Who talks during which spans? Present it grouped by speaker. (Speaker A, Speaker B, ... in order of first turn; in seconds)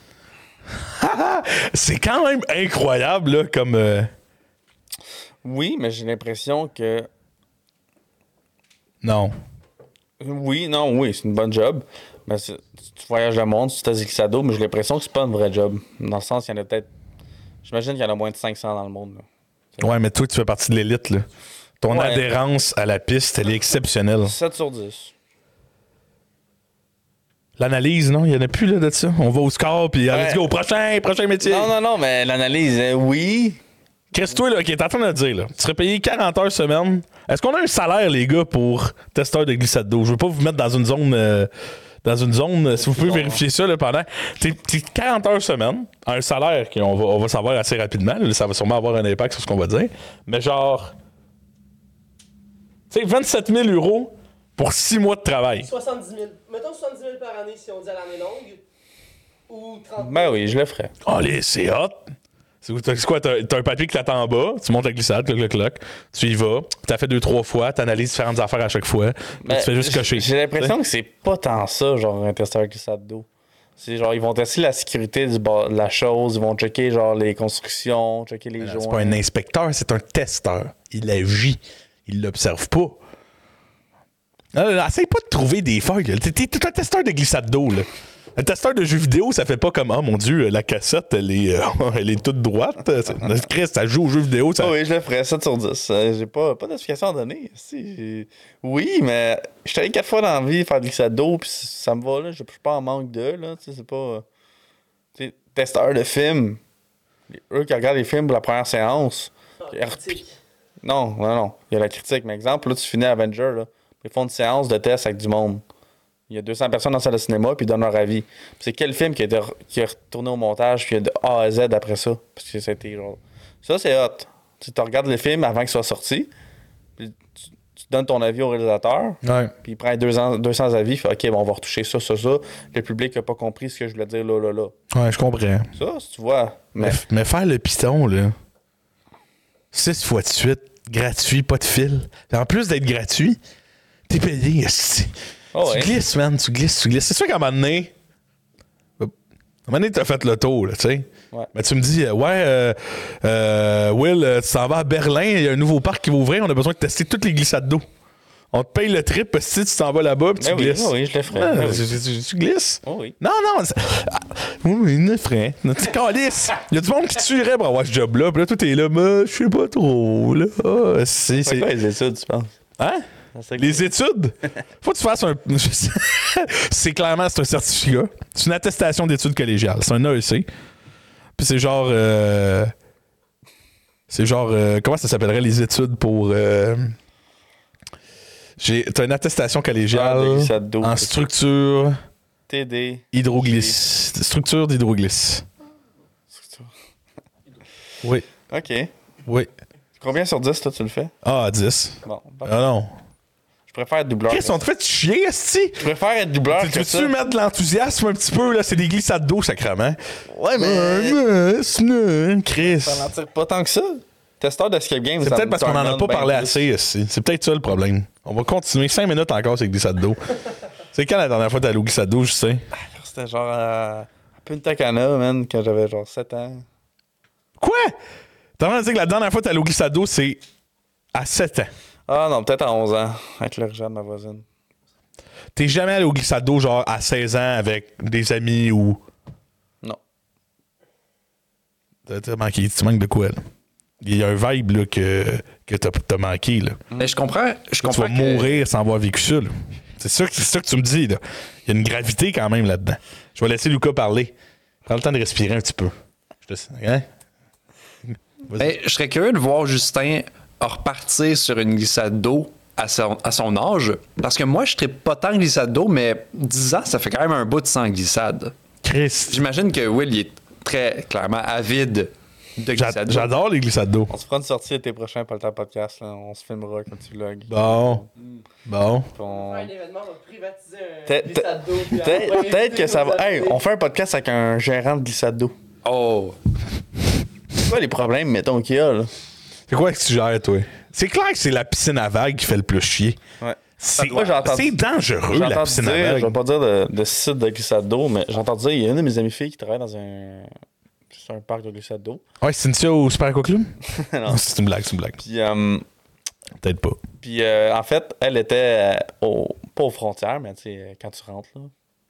Speaker A: 0.8-4.1, 9.0-9.3, 19.8-21.3, 21.8-24.4, 27.6-31.7, 34.1-41.5, 42.0-50.9, 52.9-55.7, 61.0-62.0, 62.6-70.8, 78.6-83.0, 84.5-94.8, 129.2-129.5, 134.9-135.7, 136.8-138.3, 139.7-143.4, 144.1-147.9, 149.7-157.8, 158.5-171.7, 172.8-173.1, 173.6-180.5, 181.4-182.7, 184.1-186.9, 188.6-192.0, 193.1-195.4, 201.2-202.9, 204.3-205.9, 206.5-210.0, 210.6-213.1, 215.2-220.3, 220.9-222.6, 227.6-228.0, 228.6-230.4, 231.1-231.7, 235.6-239.0, 242.1-243.4, 244.0-246.8, 247.8-254.3, 254.9-257.1, 268.8-269.4, 272.7-274.1, 277.5-278.0, 278.7-279.1, 289.7-293.2, 293.8-296.4, 302.4-303.8, 304.3-305.2, 306.6-307.0
Speaker B: 5.4-7.1, 10.2-16.9, 17.6-19.2, 21.9-22.3, 24.2-25.1, 30.1-30.4, 31.4-33.6, 42.8-43.4, 60.0-60.9, 69.4-73.3, 73.8-79.2, 94.6-104.3, 105.2-106.6, 107.3-110.2, 110.8-115.6, 116.3-126.3, 127.0-134.7, 135.8-137.0, 145.5-145.9, 160.4-161.9, 162.8-163.2, 171.4-172.5, 173.3-173.9, 189.9-191.1, 192.5-193.8, 196.3-196.7, 198.5-198.9, 200.0-201.1, 202.0-202.6, 203.7-204.6, 205.8-207.1, 210.3-211.2, 212.7-216.7, 222.7-226.7, 232.1-234.4, 274.1-278.1, 279.1-279.7, 281.1-285.6, 287.6-289.1, 293.4-294.8, 295.3-300.5, 301.1-302.2, 303.9-304.4, 305.2-305.9, 307.2-311.7
Speaker C: 55.6-58.6, 59.5-60.4, 109.9-110.3, 279.2-283.6
Speaker D: 247.0-248.6, 258.6-268.5, 269.3-273.3, 285.8-286.4, 294.0-294.3